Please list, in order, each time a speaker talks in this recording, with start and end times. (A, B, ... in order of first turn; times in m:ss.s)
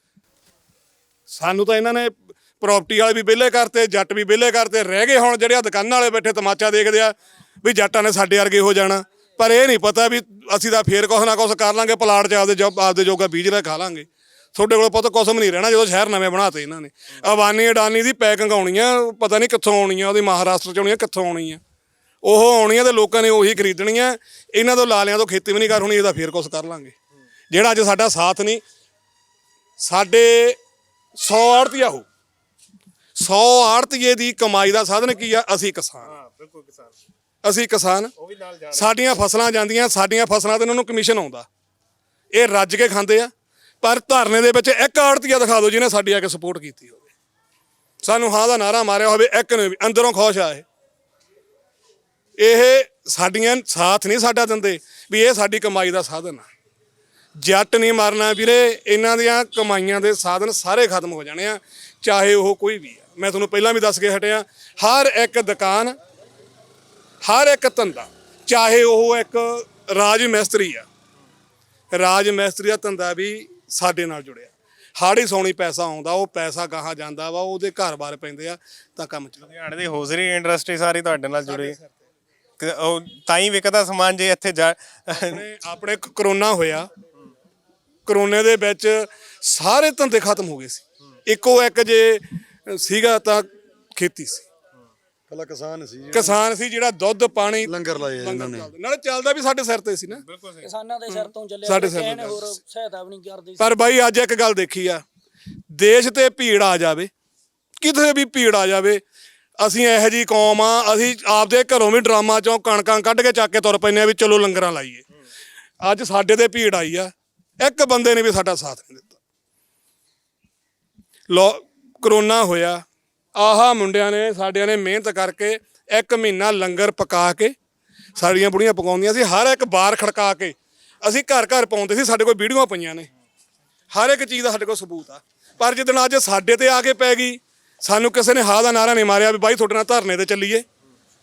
0:01.3-0:21.6 A
0:22.2-0:27.0 A
0:27.5-0:28.6 A
0:29.8-0:30.6 A
0:31.2-0:32.1 A
0:33.2-0:36.1 A
0:36.0-0:36.9 B
0:37.4-0:38.1 A
0:38.2-0:39.0 B
0:38.7-0:41.5 A
0:42.3-0:43.3 A
0:43.8-0:47.1 A
0:48.0-0:50.6 A
0:52.4-0:56.5 A
0:57.4-1:06.0 A
1:07.2-1:10.9 A
1:11.9-1:19.4 A
1:19.4-1:21.8 B
1:21.5-1:21.9 A
1:22.6-1:25.4 B
1:25.2-1:26.9 A
1:28.1-1:34.5 A
1:35.3-1:36.4 C
1:36.1-1:40.2 A
1:37.6-1:38.7 C
1:40.3-1:40.6 B
1:40.6-1:43.8 D
1:41.1-1:42.4 A
1:43.6-1:45.0 A
1:45.7-1:47.1 A
1:47.8-1:49.0 A
1:49.6-1:55.0 A
1:55.8-1:59.2 A
2:01.3-2:02.8 A
2:03.4-2:07.5 A
2:08.2-2:13.1 A
2:13.9-2:20.6 A